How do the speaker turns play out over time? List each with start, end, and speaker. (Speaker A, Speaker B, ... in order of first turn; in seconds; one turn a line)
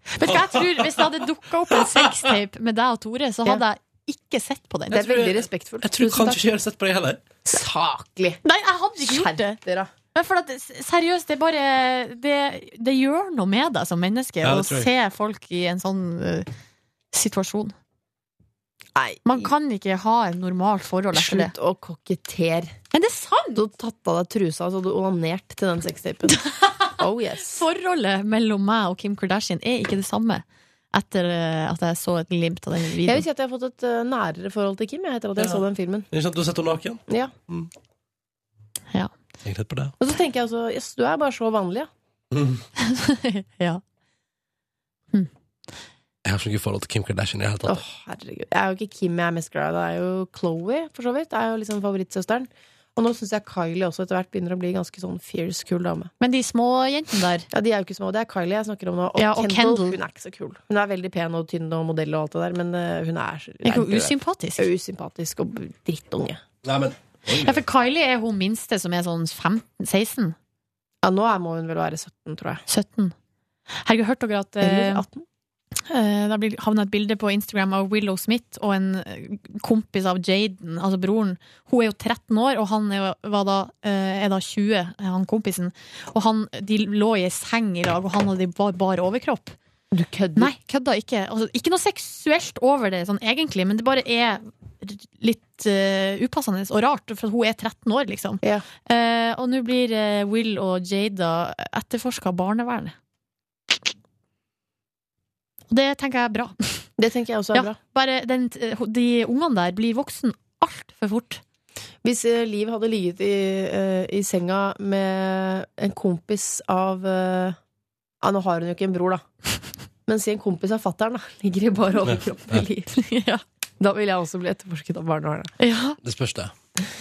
Speaker A: 0.1-5.2
Speaker B: 0.2-2.4
Speaker C: 4.9-6.4
Speaker B: 4.9-7.3
Speaker C: 7.5-8.4
Speaker A: 8.4-9.6
Speaker C: 9.0-9.9
Speaker A: 10.2-16.5
Speaker B: 14.4-14.9
Speaker A: 17.1-17.8
Speaker C: 19.0-19.5
Speaker A: 19.2-21.6
Speaker C: 21.1-22.8
Speaker A: 22.9-23.6
Speaker C: 23.6-26.5
Speaker A: 26.3-33.3
Speaker C: 27.0-27.6
Speaker C: 33.0-36.1
Speaker B: 35.4-37.7
Speaker C: 37.1-37.3
Speaker B: 39.4-39.9
Speaker C: 40.0-41.9
Speaker B: 42.3-42.6
Speaker A: 42.8-43.8
Speaker B: 46.2-47.8
Speaker C: 47.6-56.1
Speaker A: 56.2-57.5
Speaker C: 57.5-66.4
Speaker A: 59.2-60.0
Speaker A: 63.6-64.7
Speaker B: 66.6-67.6
Speaker A: 67.4-70.4
Speaker C: 71.0-72.6
Speaker A: 72.7-73.2
Speaker A: 73.8-75.0
Speaker C: 74.6-75.3
Speaker A: 75.8-89.6
Speaker C: 89.9-90.5
Speaker A: 90.4-103.0
Speaker C: 98.4-98.7
Speaker A: 105.7-106.9
Speaker C: 107.0-107.8
Speaker A: 107.5-111.4
Speaker C: 112.0-117.6
Speaker C: 118.2-119.2
Speaker C: 120.1-123.0
Speaker B: 122.0-122.6
Speaker A: 122.9-123.4
Speaker C: 123.8-125.5
Speaker A: 125.6-126.0
Speaker B: 126.0-126.5